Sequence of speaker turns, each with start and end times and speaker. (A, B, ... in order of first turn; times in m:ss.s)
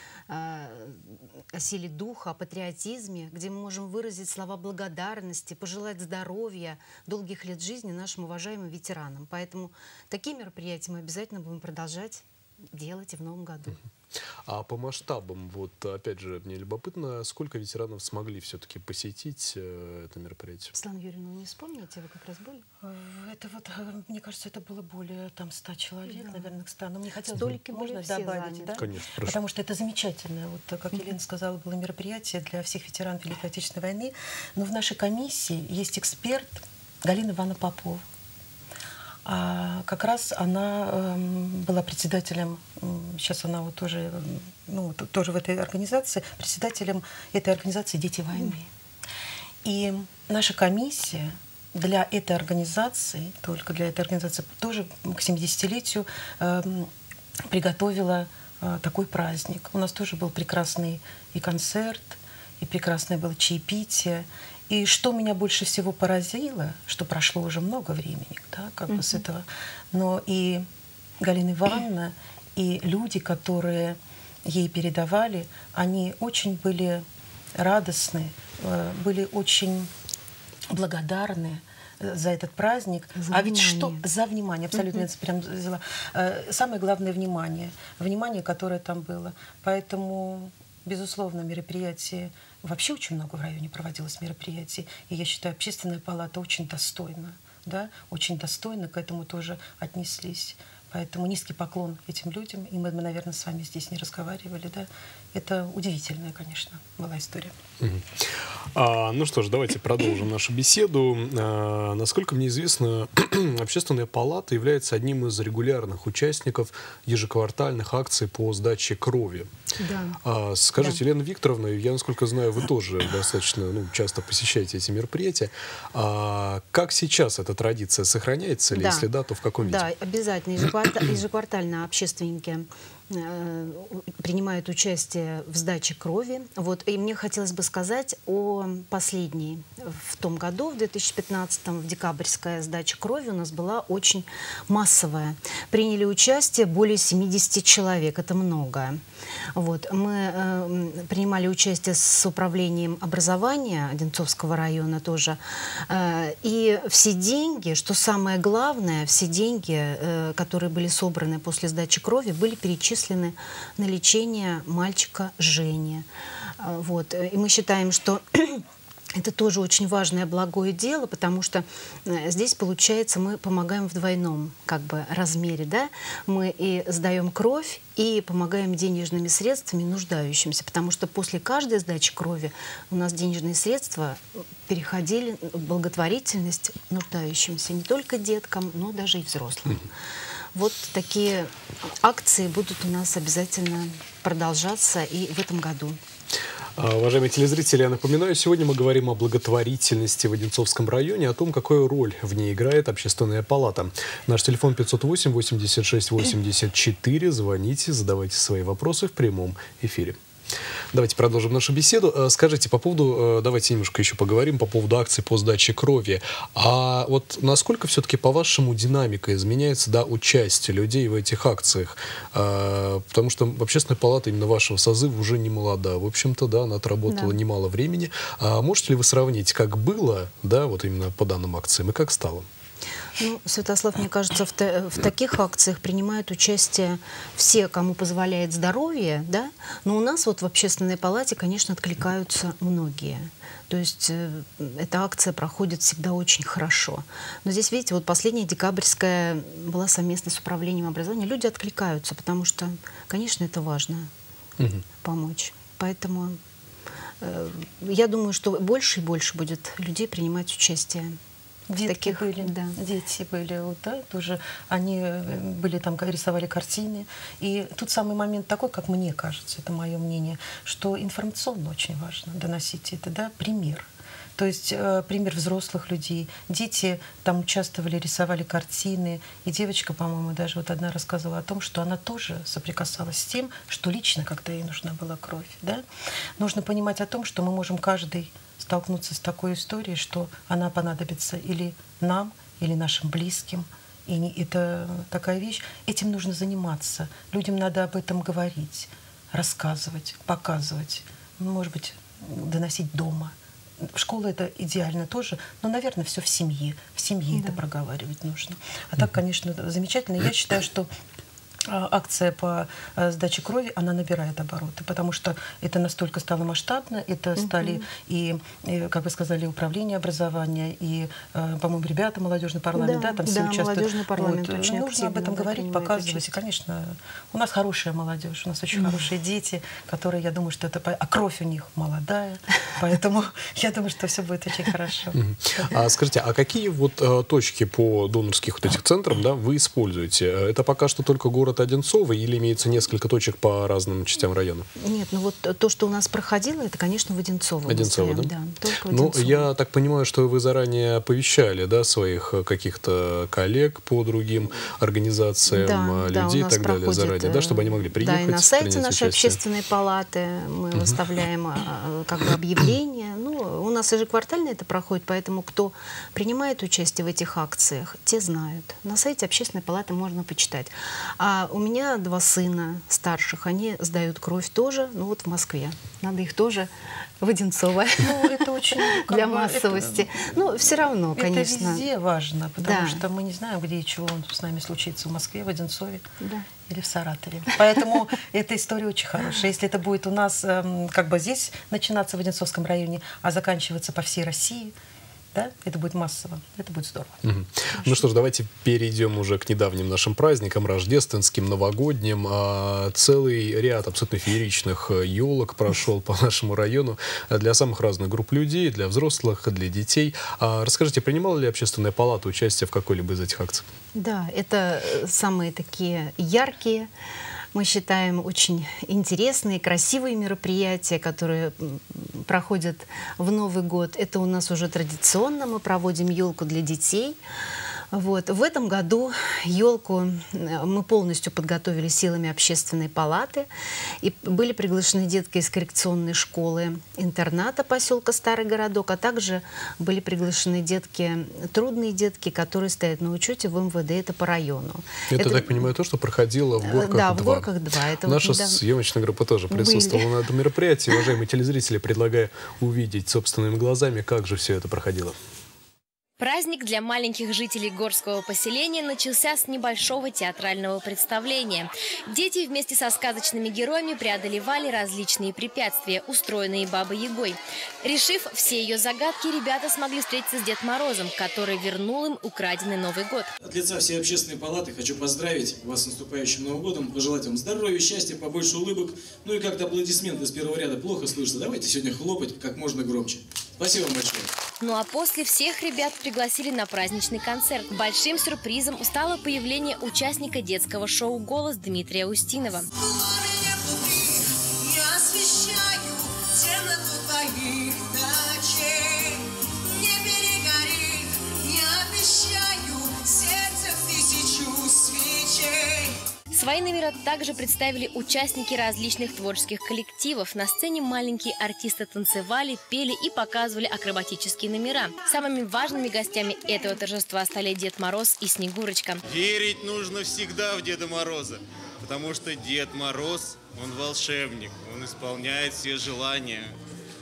0:00.3-0:13.8 A
0:14.4-0:20.7 B
0:20.7-0:22.6 A
0:22.8-0:38.0 C
0:26.1-0:26.4 A
0:27.3-0:28.8 A
0:28.8-0:29.4 B
0:39.2-0:48.7 C
0:49.6-0:56.9 C
0:57.5-1:10.6 C
1:08.9-1:09.2 A
1:11.2-1:17.0 C
1:17.6-1:19.9 C
1:20.7-1:47.5 C
1:23.2-1:24.0 A
1:24.7-1:25.0 A
1:47.8-1:59.5 B
1:59.8-2:00.2 A
2:00.2-2:09.9 B
2:08.7-2:09.1 A
2:09.6-2:29.0 A
2:29.5-2:46.1 A
2:46.6-2:48.6 A
2:49.1-3:09.9 A
3:10.6-3:16.0 A
3:16.8-3:30.2 B
3:30.9-3:52.4 B
3:47.1-3:47.4 A
3:53.2-4:14.1 A
4:14.6-4:14.8 B
4:15.0-4:16.4 A
4:17.2-4:21.2 A
4:21.7-4:45.8 C
4:21.9-4:22.8 A
4:46.4-5:10.9 C
5:07.3-5:07.6 A
5:11.7-5:35.7 C
5:17.4-5:17.8 A
5:22.7-5:26.3 A
5:28.7-5:29.0 A
5:35.2-5:44.7 B
5:44.8-5:49.5 A
5:47.6-5:48.3 B
5:48.9-5:59.4 B
5:55.5-6:21.8 A
6:18.0-6:20.3 C
6:21.2-6:26.0 C
6:22.6-6:23.0 A
6:26.2-6:26.5 A
6:26.6-6:34.7 C
6:35.3-6:37.2 C
6:37.2-6:53.6 B
6:53.9-6:56.9 A
6:57.5-7:07.2 A
7:07.9-7:13.5 A
7:14.0-7:25.7 A
7:25.1-7:27.5 B
7:26.6-7:28.6 A
7:28.1-7:35.2 B
7:29.5-7:30.1 A
7:36.2-7:53.3 D
7:53.4-8:04.3 E
8:04.6-8:12.7 D
8:12.7-8:25.9 F
8:26.3-8:39.0 D
8:39.1-8:46.6 G